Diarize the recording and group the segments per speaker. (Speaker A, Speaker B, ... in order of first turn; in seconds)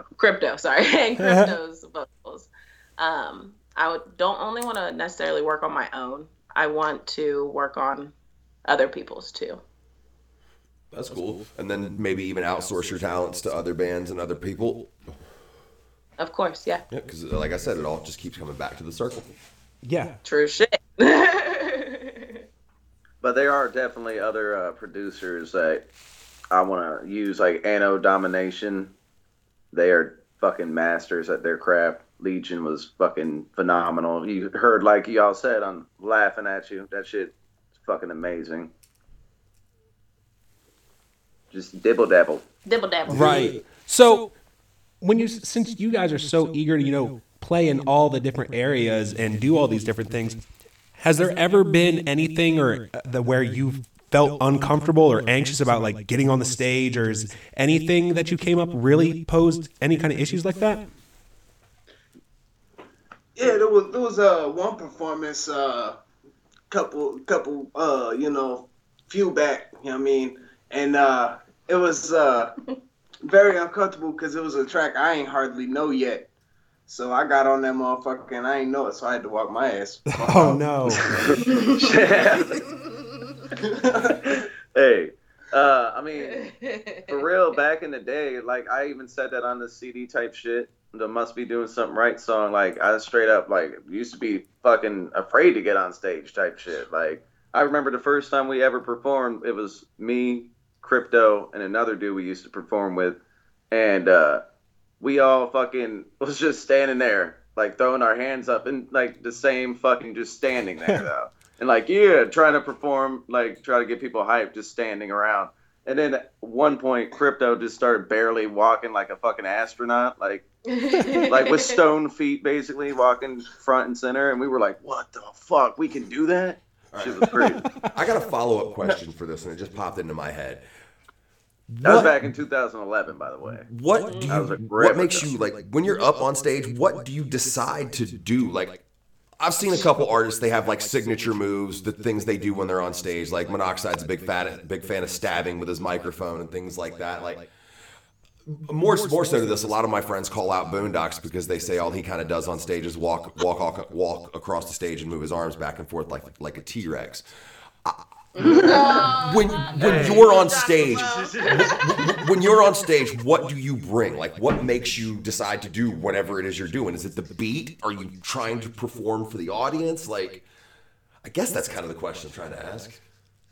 Speaker A: 0.1-8.1, 8.6-9.6, 16.2-16.8, 20.2-22.4, 42.6-43.6, 81.4-81.9, 82.8-83.4, 86.2-87.2, 120.7-121.7, 134.0-134.3, 158.3-162.2
Speaker B: 10.9-14.9, 16.9-19.3, 126.9-130.6, 131.7-132.2, 133.6-138.8, 139.4-147.5, 148.5-157.3, 157.8-170.4, 171.2-173.0
Speaker C: 19.8-20.2, 43.1-44.3, 45.0-50.4, 51.0-60.8, 80.2-81.1
Speaker D: 23.2-25.9, 26.5-28.9, 29.7-38.7, 41.5-42.4, 81.0-82.6, 84.2-86.5, 87.1-103.2, 103.7-104.4, 105.0-120.4, 121.1-127.7, 131.8-133.7, 134.3-135.3, 158.4-159.0, 159.7-160.3, 160.9-162.0
Speaker E: 63.4-66.0, 66.7-72.5, 73.2-76.3, 76.9-81.2, 83.5-84.4